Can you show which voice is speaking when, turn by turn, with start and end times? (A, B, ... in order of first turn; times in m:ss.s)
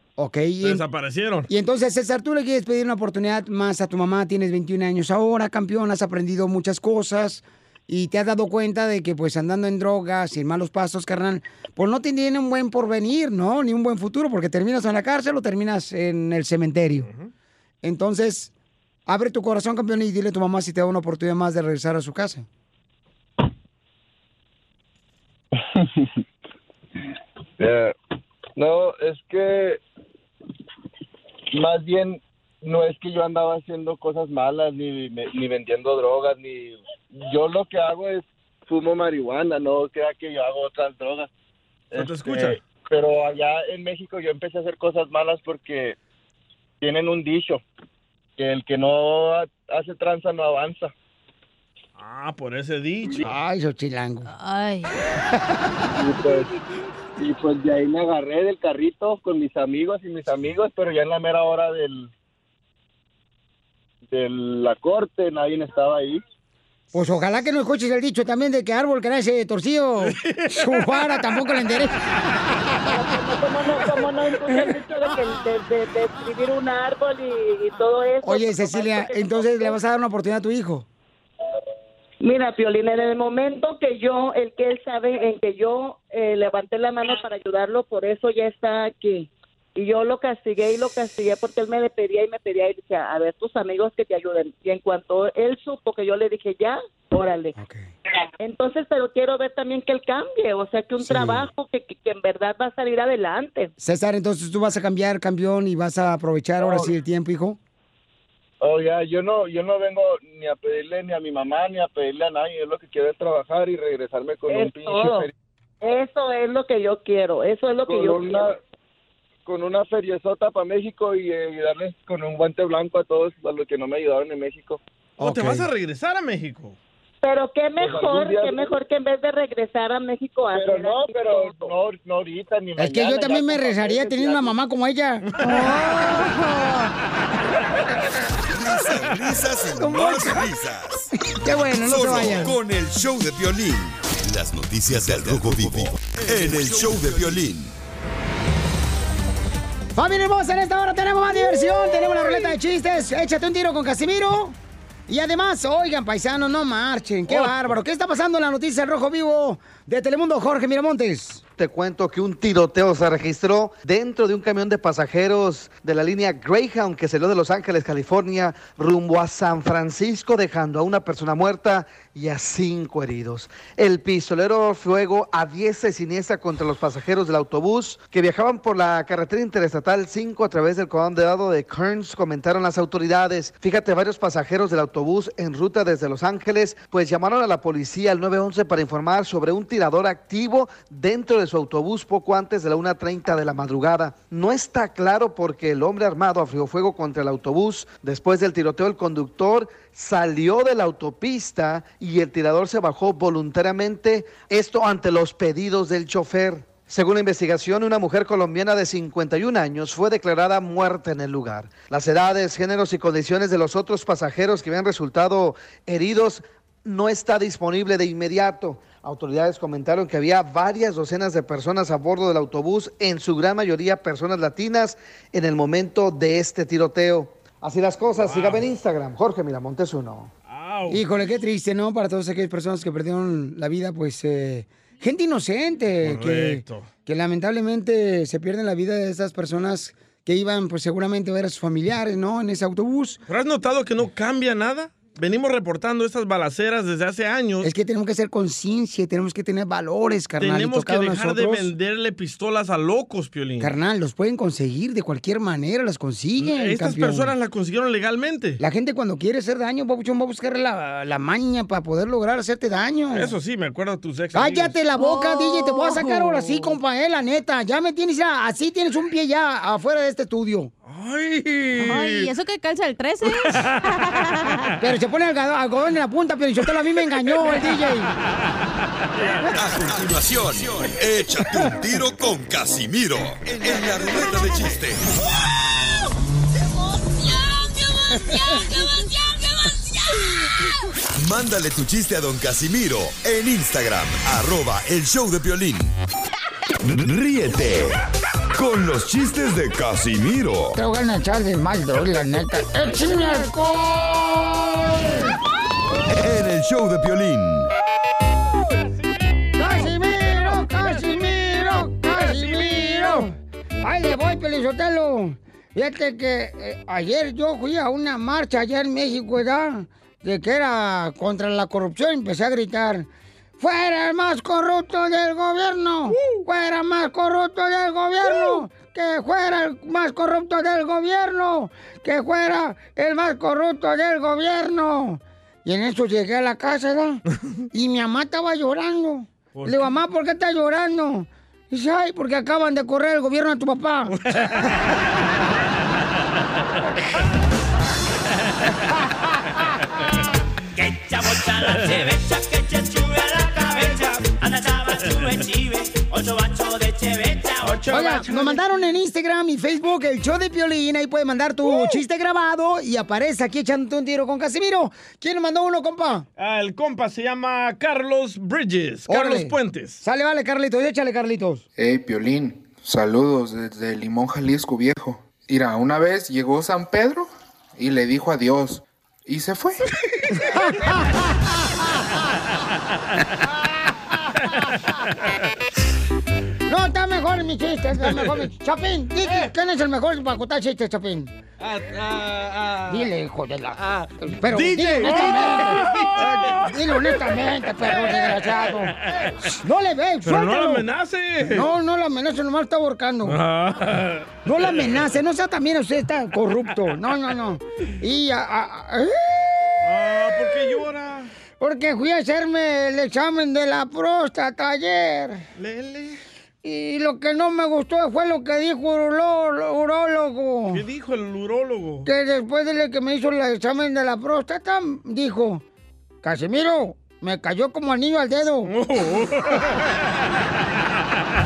0:00.2-0:00.8 A
0:00.6-0:01.5 B
0:01.5-0:17.1 A
0:17.8-0:18.5 A
0:19.1-0:22.5 A
0:25.6-0:26.1 C
0:27.6-0:27.9 C
0:28.6-0:29.8 C
0:31.5-0:41.3 C
0:41.9-0:46.0 C
0:42.0-0:42.6 B
0:46.8-0:47.6 C
0:48.4-0:50.9 C
0:52.0-0:53.3 B
0:53.2-0:54.3 A
0:54.3-0:54.9 D
0:55.9-0:56.5 C
0:57.2-1:02.1 C
1:04.1-1:06.2 C
1:06.9-1:12.6 A
1:10.0-1:11.0 B
1:12.9-1:19.8 E
1:18.2-1:20.8 A
1:22.2-1:37.6 E
1:37.6-1:37.8 A
1:38.4-1:43.7 E
1:41.0-1:41.5 A
1:43.8-1:47.6 A
1:46.6-1:46.9 C
1:48.6-1:55.3 C
1:54.5-1:55.3 E
1:55.8-1:58.4 E
1:57.9-1:58.6 C
1:59.5-2:04.8 C
2:05.2-2:05.7 A
2:05.2-2:06.8 B
2:07.2-2:11.7 E
2:07.8-2:08.6 C
2:10.5-2:14.5 C
2:12.8-2:15.3 A
2:15.4-2:16.8 D
2:18.5-2:21.1 F
2:19.8-2:20.4 A
2:21.3-2:22.6 A
2:21.8-2:27.7 F
2:30.0-2:34.6 A
2:35.1-2:41.4 A
2:37.3-2:37.6 B
2:41.6-3:50.3 G
3:48.2-3:48.6 B
3:50.5-3:51.0 B
3:50.9-4:03.2 A
3:56.0-3:56.9 B
4:03.3-4:07.7 B
4:07.6-4:11.7 A
4:10.4-4:13.7 B
4:13.6-4:17.3 A
4:16.4-4:18.6 B
4:18.6-4:23.3 A
4:23.1-4:24.8 B
4:24.3-4:30.7 A
4:25.0-4:26.8 D
4:30.9-4:32.3 B
4:31.8-4:34.7 D
4:33.3-4:33.6 B
4:34.8-4:38.1 A
4:39.2-4:39.5 B
4:39.5-4:45.1 F
4:51.2-4:55.9 F
4:56.9-4:58.0 F
4:58.6-5:00.8 F
5:00.8-5:05.3 A
5:06.2-5:07.7 F
5:09.6-5:23.1 A
5:12.1-5:13.2 B
5:23.6-5:37.2 A
5:37.7-5:44.1 A
5:39.6-5:39.9 B
5:44.1-5:44.9 B
5:50.8-5:58.0 H
5:57.6-5:58.6 B
5:57.9-6:06.3 A
6:06.4-6:10.0 B
6:09.1-6:11.6 A
6:11.8-6:19.8 I
6:20.5-6:21.1 A
6:26.7-6:31.3 A
6:28.1-6:28.4 B
6:31.6-6:32.9 B
6:32.9-6:38.9 A
6:34.4-6:36.7 B
6:38.0-6:38.3 B
6:39.6-6:40.8 A
6:40.2-6:41.7 B
6:41.5-6:43.4 A
6:43.3-6:45.0 B
6:44.4-6:50.5 A
6:49.8-6:51.3 B
6:51.6-6:55.4 A
6:55.6-6:56.2 B
6:56.6-7:00.8 A
7:00.7-7:02.1 B
7:02.0-7:05.6 A
7:06.2-7:08.7 A
7:08.7-7:09.8 B